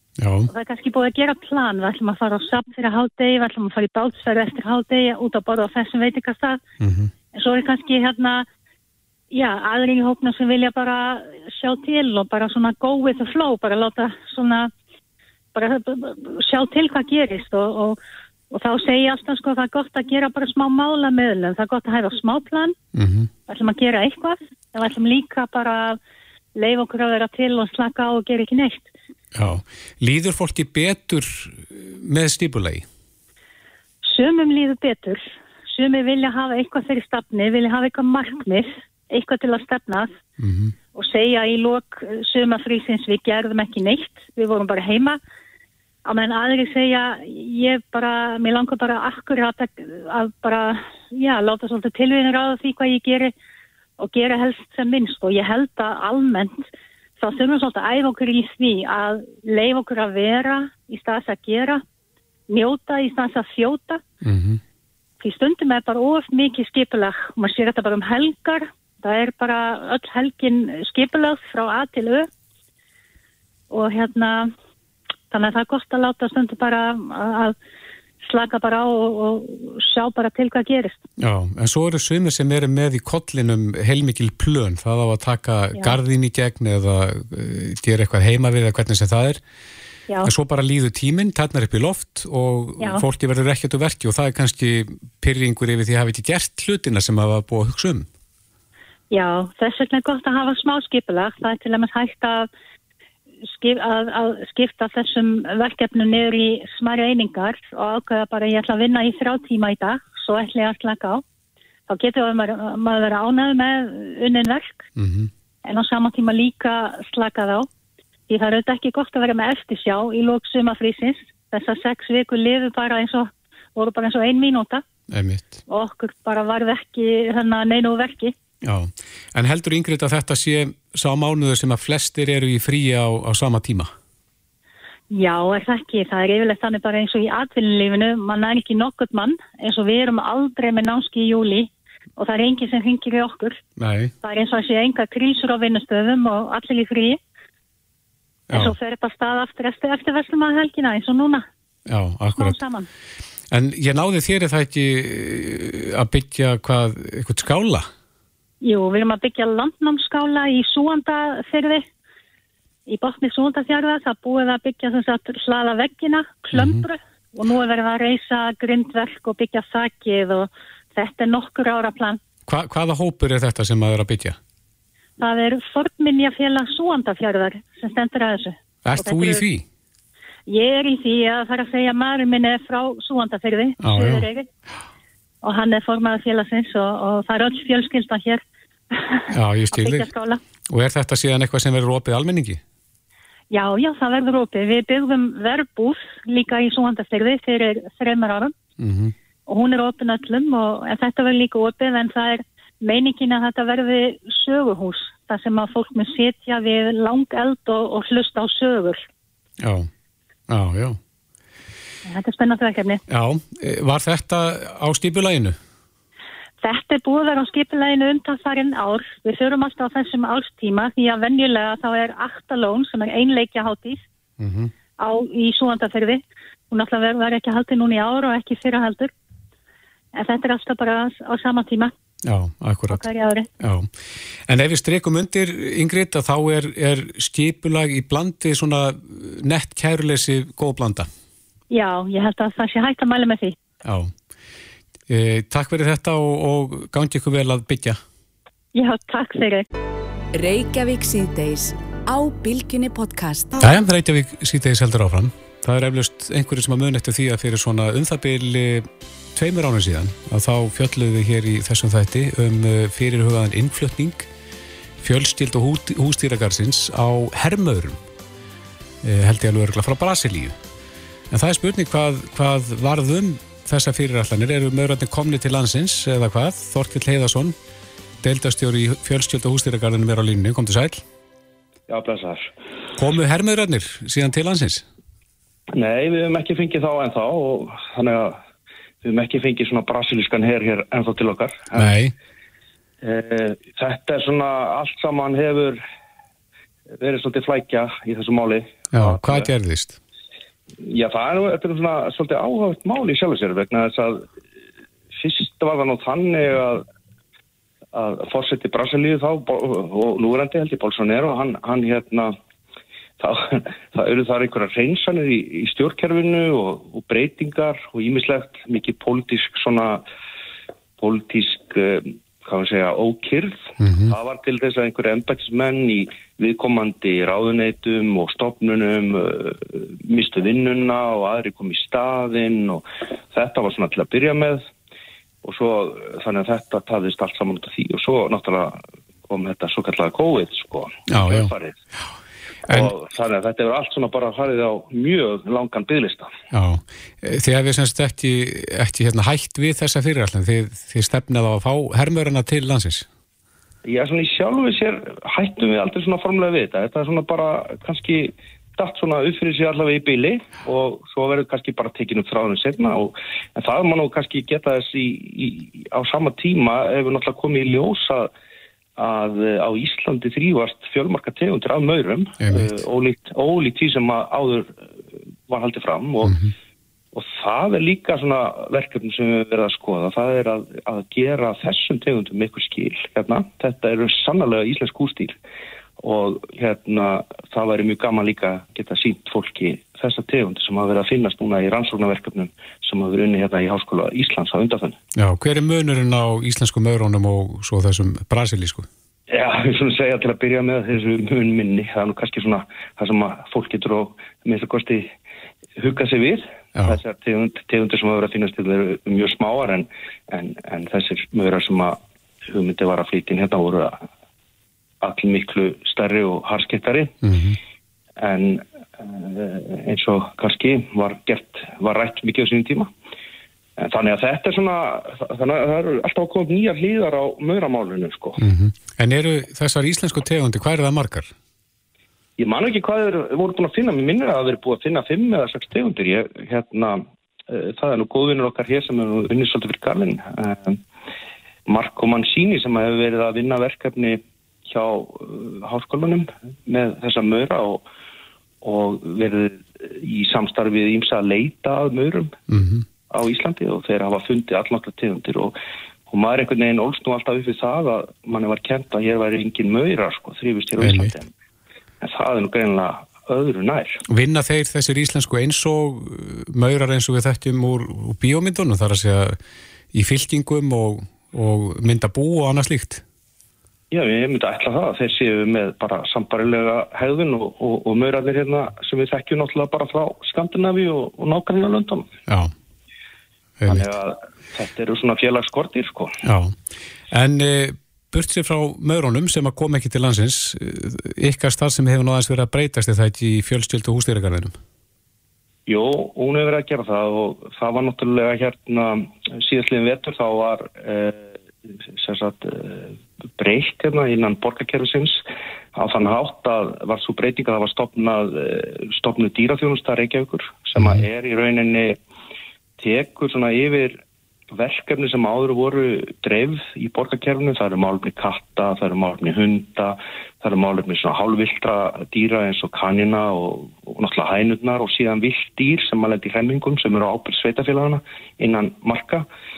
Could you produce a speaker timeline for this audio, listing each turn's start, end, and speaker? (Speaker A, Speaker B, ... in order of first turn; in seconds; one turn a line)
Speaker A: 0.2-0.5
Speaker B: 0.5-6.6
Speaker A: 6.8-7.1
Speaker B: 7.3-8.4
Speaker B: 9.3-14.7
Speaker B: 15.5-18.0
Speaker B: 18.5-22.8
Speaker A: 22.9-23.3
Speaker B: 23.5-26.0
Speaker B: 26.6-28.9
Speaker A: 29.3-32.9
Speaker B: 34.0-40.2
Speaker A: 40.4-40.7
Speaker B: 40.9-45.2
Speaker B: 46.0-53.3
Speaker B: 54.0-56.7
Speaker B: 57.2-61.8
Speaker B: 62.5-64.0
Speaker A: 64.2-64.6
Speaker B: 65.2-72.3
Speaker B: 73.7-74.5
Speaker B: 75.3-77.5
Speaker B: 78.2-81.0
Speaker A: 81.2-89.4
Speaker A: 90.2-98.1
Speaker B: 99.1-102.5
Speaker B: 103.5-111.2
Speaker B: 111.9-114.9
Speaker A: 115.0-115.3
Speaker B: 115.6-117.7
Speaker B: 118.3-124.8
Speaker A: 125.1-125.6
Speaker B: 125.7-128.3
Speaker A: 128.6-133.9
Speaker B: 135.1-143.6
Speaker A: 143.8-144.1
Speaker B: 144.2-147.2
Speaker B: 148.5-151.4
Speaker A: 151.9-152.6
Speaker B: 152.3-152.9
Speaker A: 153.5-157.9
Speaker B: 158.6-161.8
Speaker B: 162.9-172.2
Speaker A: 166.5-166.8
Speaker A: 172.5-174.4
Speaker B: 175.2-179.4
Speaker A: 178.8-179.6
Speaker B: 180.5-184.5
Speaker A: 183.8-184.2
Speaker B: 185.4-190.4
Speaker A: 189.3-190.1
Speaker A: 190.7-192.6
Speaker B: 193.5-198.5
Speaker A: 198.8-199.1
Speaker B: 199.5-209.0
Speaker A: 209.6-209.9
Speaker A: 210.5-211.0
Speaker B: 212.1-213.0
Speaker A: 213.1-215.6
Speaker B: 216.6-224.0
Speaker A: 224.4-224.7
Speaker B: 225.0-229.1
Speaker B: 230.1-231.9
Speaker A: 232.2-233.0
Speaker B: 232.9-233.5
Speaker A: 233.6-233.9
Speaker A: 234.5-241.1
Speaker B: 241.7-243.6
Speaker A: 243.8-244.1
Speaker A: 245.1-248.0
Speaker B: 248.7-249.7
Speaker C: 250.3-253.6
Speaker A: 253.6-264.3
Speaker A: 265.0-268.0
Speaker A: 269.0-270.6
Speaker A: 271.3-277.6
Speaker A: 278.2-281.0
Speaker D: 281.9-282.5
Speaker A: 282.9-284.9
Speaker D: 285.7-288.4
Speaker D: 289.0-292.0
Speaker A: 291.8-292.1
Speaker D: 293.0-295.8
Speaker D: 296.9-299.5
Speaker A: 298.9-300.0
Speaker D: 300.8-304.3
Speaker D: 305.1-306.9
Speaker D: 307.9-312.4
Speaker D: 313.2-320.0
Speaker D: 321.0-334.7
Speaker A: 323.8-324.1
Speaker D: 335.4-341.8
Speaker A: 341.1-341.5
Speaker D: 342.7-346.3
Speaker A: 346.5-353.1
Speaker D: 353.8-368.3
Speaker D: 369.0-374.8
Speaker A: 372.4-372.7
Speaker D: 375.5-376.4
Speaker A: 376.2-376.5
Speaker D: 377.1-385.4
Speaker D: 386.0-395.0
Speaker A: 395.2-398.9
Speaker D: 399.3-405.1
Speaker D: 405.8-414.0
Speaker D: 415.0-417.2
Speaker A: 417.2-417.6
Speaker D: 418.2-422.9
Speaker D: 423.8-428.4
Speaker A: 428.4-431.3
Speaker D: 432.4-440.8
Speaker D: 441.7-447.8
Speaker D: 448.6-452.4
Speaker A: 452.5-452.9
Speaker D: 453.1-455.6
Speaker D: 456.1-461.3
Speaker A: 460.8-461.1
Speaker D: 462.0-464.0
Speaker A: 464.1-469.4
Speaker A: 469.9-473.0
Speaker D: 473.9-482.1
Speaker A: 483.6-483.9
Speaker D: 483.6-486.1
Speaker A: 486.2-486.6
Speaker A: 487.1-494.5
Speaker D: 495.7-501.3
Speaker D: 501.9-505.2
Speaker D: 505.7-512.0
Speaker D: 512.8-514.0
Speaker D: 514.5-529.2